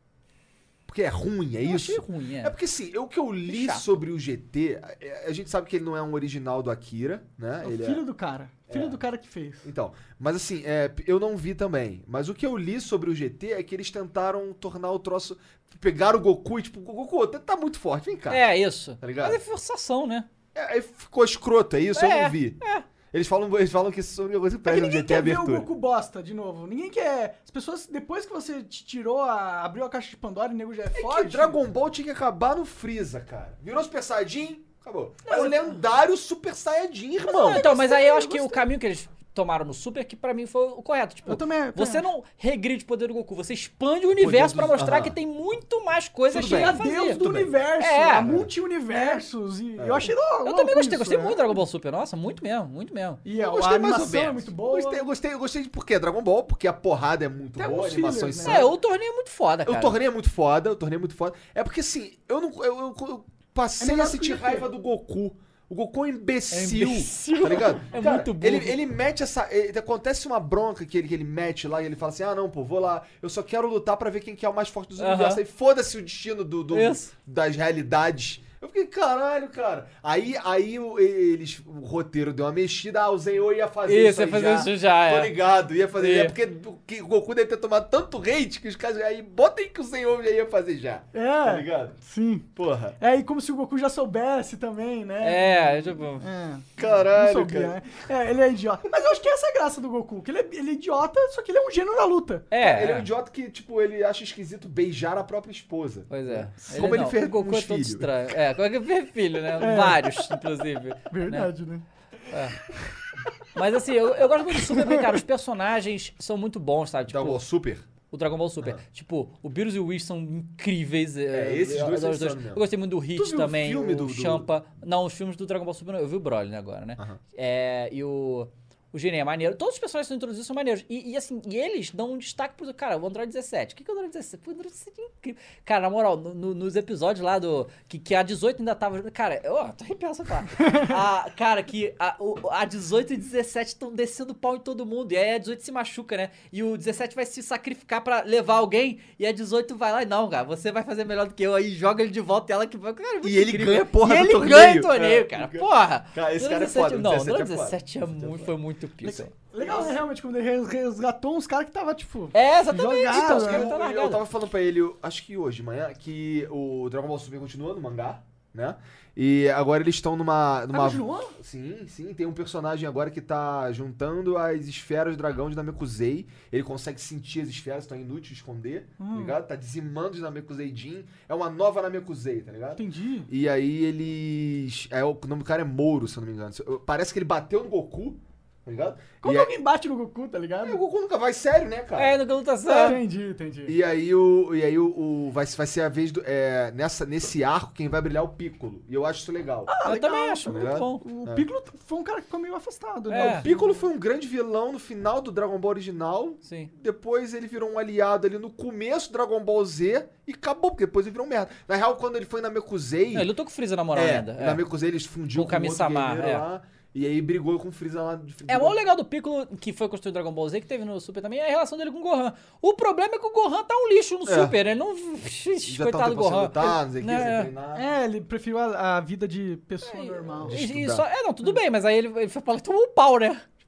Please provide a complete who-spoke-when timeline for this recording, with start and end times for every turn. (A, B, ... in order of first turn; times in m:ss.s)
0:00.9-0:08.0 A
0:01.6-0:02.6 B
0:03.5-0:04.0 B
0:07.6-0:09.7 C
0:08.7-0:09.0 A
0:09.6-0:18.4 A
0:18.3-0:20.3 B
0:19.0-0:19.4 A
0:20.6-0:22.6 A
0:21.9-0:22.8 B
0:23.1-0:25.7 A
0:24.7-0:31.6 C
0:30.9-0:37.7 A
0:35.3-0:35.6 B
0:37.3-0:38.7 C
0:37.4-0:47.2 B
0:41.3-0:42.1 C
0:44.2-0:45.2 A
0:46.3-0:47.6 A
0:46.3-0:51.6 C
0:47.8-0:48.3 B
0:48.2-0:48.5 A
0:49.8-0:50.1 A
0:50.4-0:53.2 B
0:53.2-0:55.0 C
0:53.4-0:58.7 A
0:57.6-0:58.7 C
0:58.4-1:00.0 B
0:59.6-1:32.0 A
1:03.8-1:04.7 C
1:06.5-1:08.8 B
1:15.0-1:15.4 B
1:16.7-1:17.1 B
1:23.9-1:25.4 B
1:26.0-1:26.4 B
1:31.1-1:42.5 C
1:32.6-1:33.0 A
1:35.2-1:36.3 B
1:36.8-1:37.8 A
1:42.5-1:43.1 B
1:42.6-1:48.1 A
1:46.1-1:51.5 B
1:49.6-1:50.3 C
1:51.1-1:51.8 C
1:52.3-1:52.6 B
1:53.6-1:57.4 B
1:57.1-1:57.9 A
1:58.1-2:39.3 B
2:01.3-2:04.5 A
2:33.2-2:38.5 A
2:39.0-2:43.7 C
2:39.6-2:40.0 A
2:42.3-2:44.2 B
2:43.1-3:09.5 A
2:50.7-2:51.4 C
2:59.0-2:59.4 C
3:02.8-3:03.3 C
3:09.2-3:10.8 C
3:10.6-3:13.0 A
3:12.0-3:13.0 B
3:12.8-3:13.8 C
3:13.7-3:19.7 A
3:19.7-3:23.8 C
3:19.8-3:21.0 B
3:20.5-3:21.4 A
3:23.1-3:23.5 B
3:23.2-3:33.3 A
3:26.4-3:26.7 B
3:33.1-3:34.6 B
3:33.9-3:38.8 A
3:35.3-3:36.4 B
3:38.5-3:47.5 B
3:44.3-3:44.6 A
3:45.6-3:47.8 A
3:47.8-3:50.6 C
3:49.8-3:53.5 B
3:50.4-3:51.0 A